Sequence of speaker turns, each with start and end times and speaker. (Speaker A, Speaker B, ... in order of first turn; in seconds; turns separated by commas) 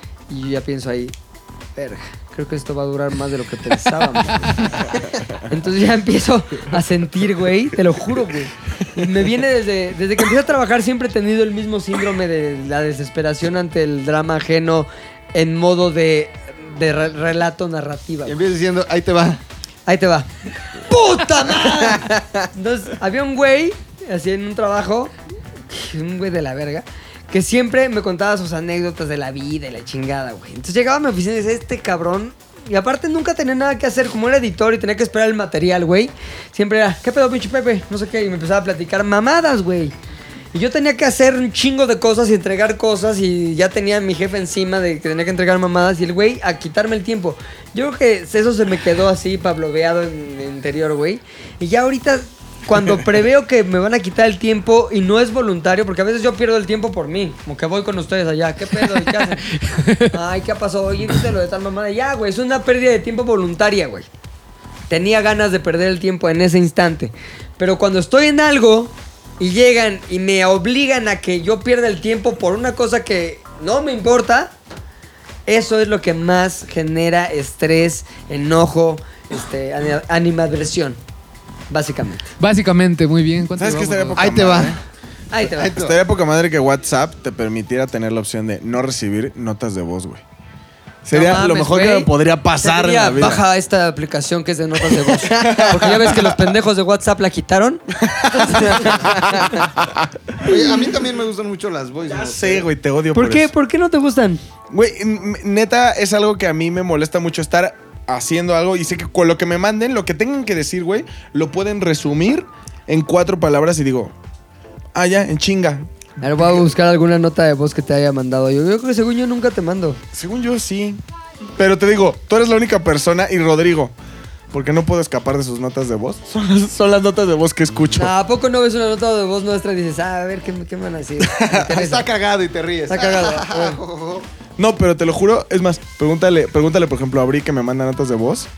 Speaker A: 0.3-1.1, Speaker A: 1.8-18.4, Speaker B: 18.2-19.4, Speaker A: 19.9-25.1, Speaker A: 25.7-39.9, Speaker A: 40.5-64.1, Speaker C: 59.5-60.1, Speaker A: 64.9-74.5, Speaker A: 75.5-81.0, Speaker A: 81.7-82.3, Speaker C: 82.4-84.2, Speaker D: 83.5-84.8, Speaker B: 84.2-84.8, Speaker A: 85.3-85.7, Speaker B: 85.4-86.0, Speaker D: 85.8-90.2, Speaker D: 91.0-93.4, Speaker A: 91.1-99.6, Speaker D: 95.2-96.4, Speaker D: 98.0-99.9, Speaker B: 98.7-99.1, Speaker B: 100.4-102.7, Speaker D: 102.1-103.5, Speaker A: 103.1-104.4, Speaker D: 104.7-114.1, Speaker D: 114.9-116.7, Speaker A: 116.2-120.0, Speaker D: 120.1-121.0, Speaker D: 121.6-123.9, Speaker D: 124.5-128.1, Speaker A: 128.0-132.1, Speaker D: 131.2-131.6, Speaker B: 131.5-134.3, Speaker A: 132.9-133.8, Speaker D: 134.6-138.5